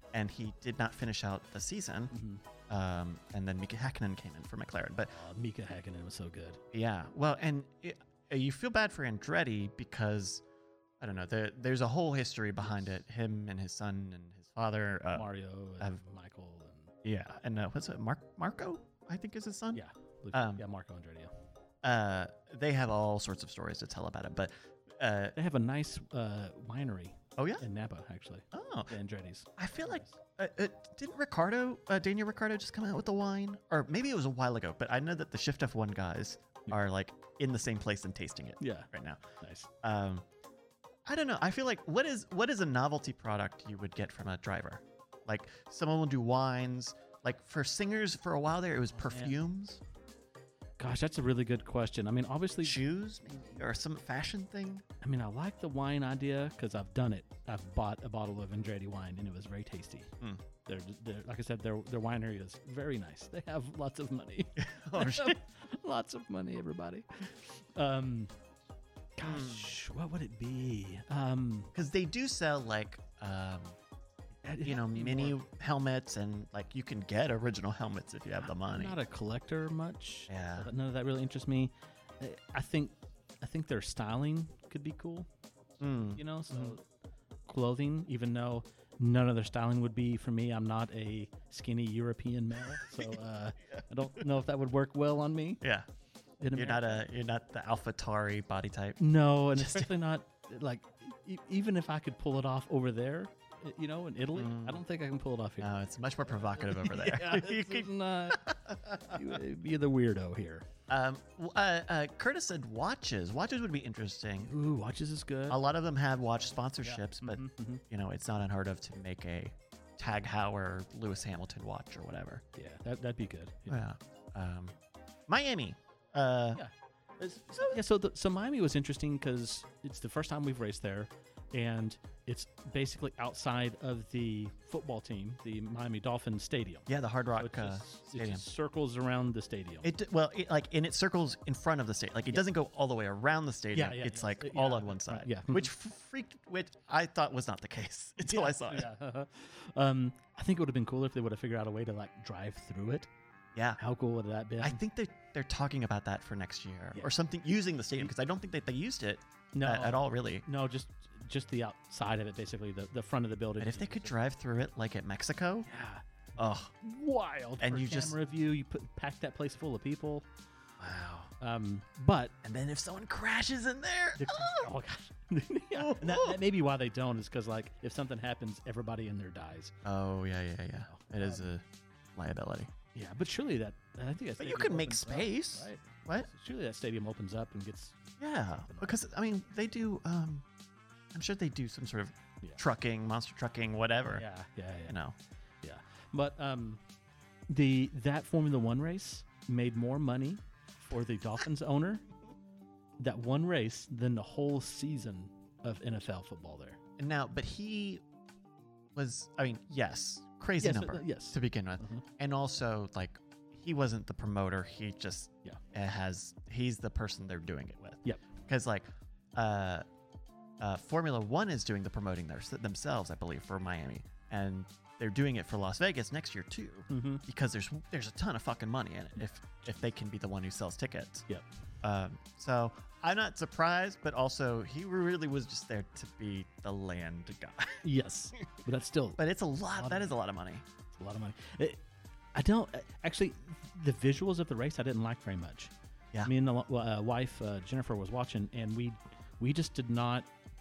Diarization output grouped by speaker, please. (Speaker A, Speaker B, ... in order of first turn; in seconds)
Speaker A: 0.1-2.1, 2.7-5.2, 6.7-10.4, 11.0-16.0, 17.0-20.6, 21.8-25.4, 27.4-27.7, 28.5-28.9, 29.6-39.2, 39.8-40.2, 41.1-49.8, 52.6-54.8, 64.6-65.4, 69.2-69.7, 71.7-73.8, 74.6-79.0, 80.3-80.7, 85.8-86.8, 95.6-95.9, 96.5-99.0, 99.5-99.9, 104.3-104.8, 105.6-108.5, 109.1-109.4, 110.9-114.5, 115.5-122.4, 123.7-124.7, 125.3-126.7, 127.2-127.8, 136.9-138.4, 139.8-148.9, 153.5-153.8, 154.6-160.4, 163.6-165.7, 166.4-166.7, 167.6-168.2, 170.8-171.3, 172.4-174.7, 175.8-176.4, 179.8-181.6, 182.1-182.7, 184.4-186.3, 188.2-190.4, 191.1-194.2, 194.9-195.2, 207.0-208.0, 208.9-219.8, 220.6-231.3, 231.8-237.8, 239.2-240.6
Speaker B: 2.1-2.4, 5.1-6.6, 15.1-16.9, 19.7-21.3, 25.4-30.1, 38.6-38.9, 39.4-39.7, 49.0-49.3, 50.8-52.8, 55.0-60.1, 60.6-68.3, 69.2-71.7, 74.4-75.4, 78.5-85.3, 86.1-86.8, 87.5-95.6, 96.4-97.0, 99.0-105.7, 106.6-110.6, 114.5-115.6, 116.8-117.8, 122.5-123.8, 127.6-139.9, 143.7-145.7, 148.2-153.1, 153.8-154.8, 159.5-164.1, 165.7-166.0, 166.8-170.2, 171.4-172.3, 174.2-179.7, 180.9-181.4, 182.9-188.0, 194.1-194.9, 195.6-196.8, 197.5-202.0, 203.0-206.8, 210.6-212.0, 226.9-227.2, 237.8-239.2, 239.7-240.1, 240.9-241.8, 242.3-245.7, 246.2-250.3